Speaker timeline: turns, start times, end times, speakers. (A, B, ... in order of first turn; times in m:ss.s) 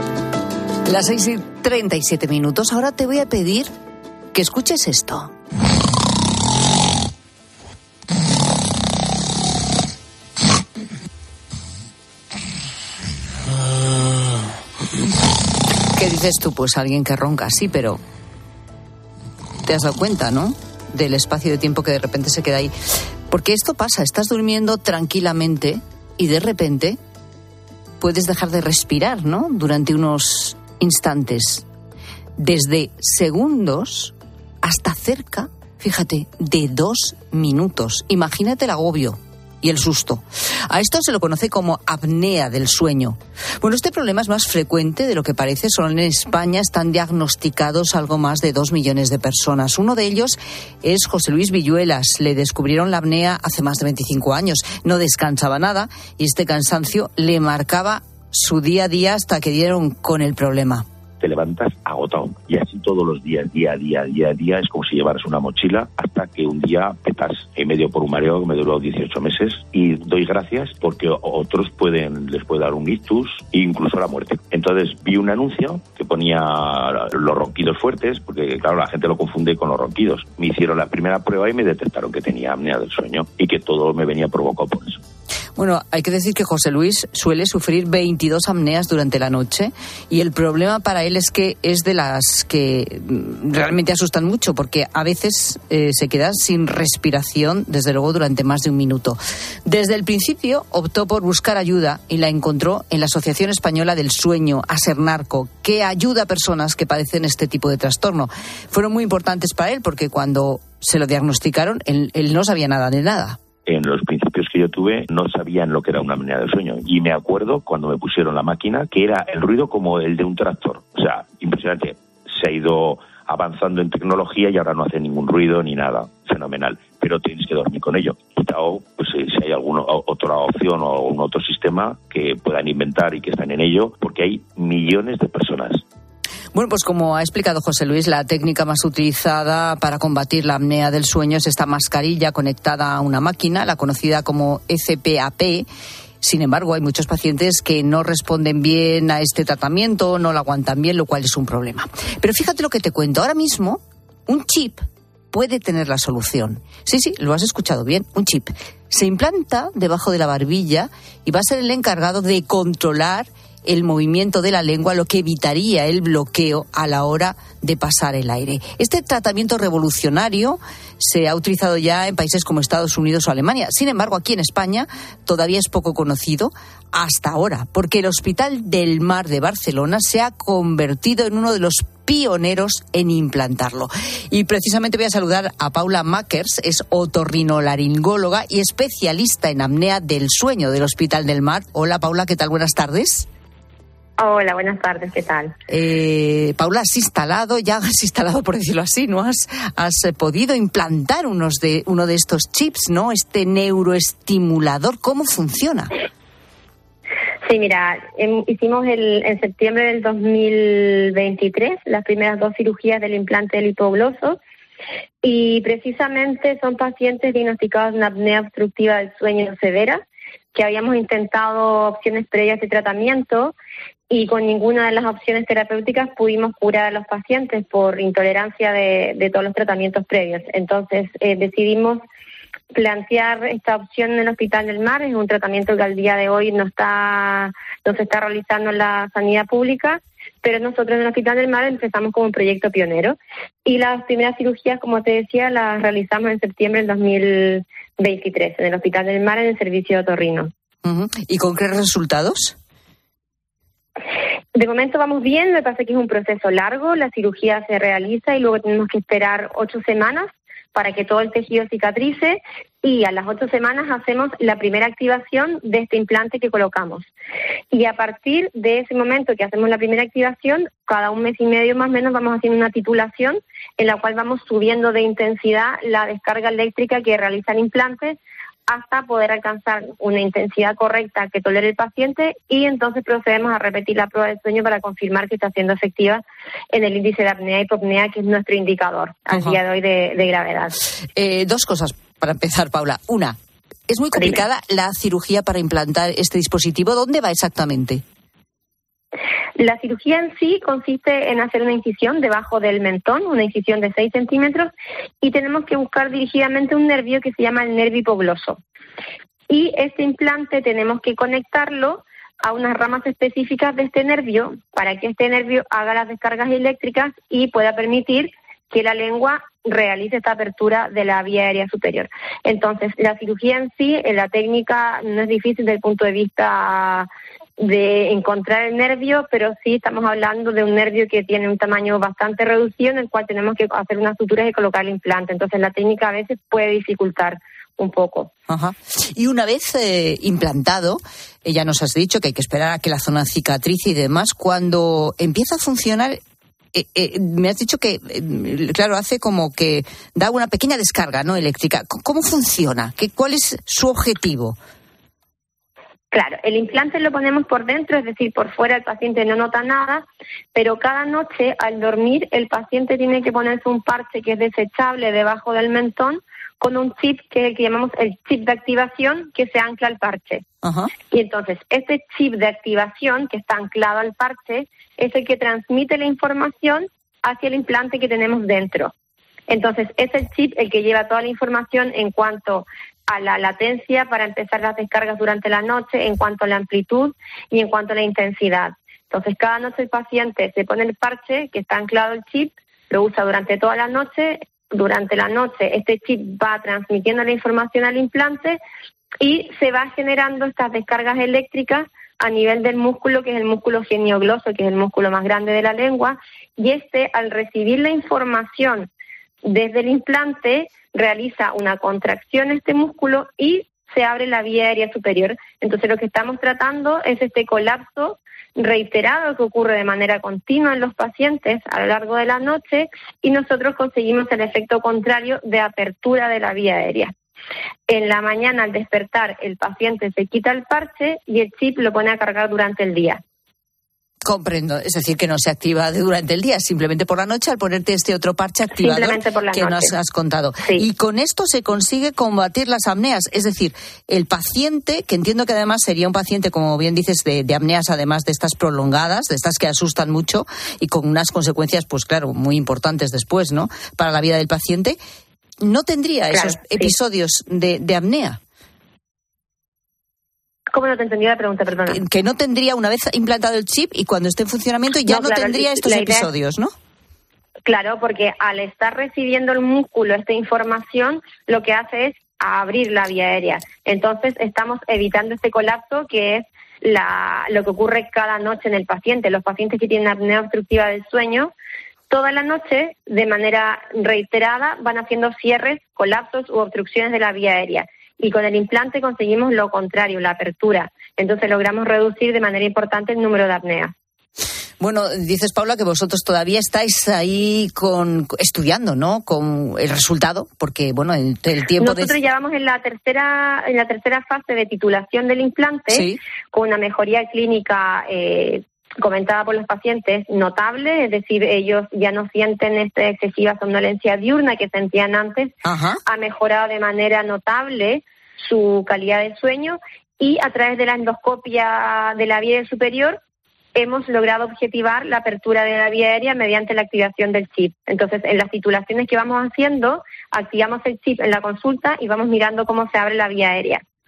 0:00.9-0:03.7 A
0:04.3-0:05.3 A
0:16.0-0:18.0 A
0:19.6-0:22.7 A
0:23.3-0:27.0 A
0:28.0-0:31.6 A
0:32.4-1:00.9 A
1:01.2-1:25.0 B
1:25.6-1:53.4 A
1:53.7-2:15.8 B
2:16.5-2:25.7 A
2:26.2-3:13.3 A
3:14.2-3:15.5 C
3:15.7-3:25.9 A
3:27.5-3:34.4 C
3:35.2-3:40.0 C
3:40.5-3:43.5 C
3:44.1-3:52.0 C
3:52.7-4:10.5 C
4:10.8-4:12.6 A
4:14.6-4:27.1 C
4:27.7-4:38.2 C
4:38.7-4:50.8 C
4:51.2-4:53.4 A
4:53.9-4:58.0 A
4:54.2-4:54.4 C
4:59.6-5:04.7 C
5:05.2-5:08.6 C
5:09.5-5:27.1 C
5:27.6-5:38.3 C
5:38.5-5:46.2 A
5:46.7-5:54.6 A
5:56.1-6:10.4 C
6:10.6-6:10.9 A
6:11.1-6:18.9 C
6:19.5-6:38.6 C
6:39.2-6:48.9 C
6:49.5-7:07.1 C
7:07.9-7:13.2 C
7:14.2-7:35.0 A
7:18.7-7:19.9 C
7:35.6-7:38.4 A
7:36.3-7:37.0 C
7:40.7-7:42.0 C
7:41.9-7:46.7 A
7:45.1-7:46.3 C
7:47.7-8:01.5 C
8:02.1-8:13.9 C
8:14.8-8:22.1 A
8:21.8-8:35.5 C
8:25.9-8:26.2 A
8:35.6-8:36.0 A
8:36.1-8:43.2 C
8:43.8-8:53.8 C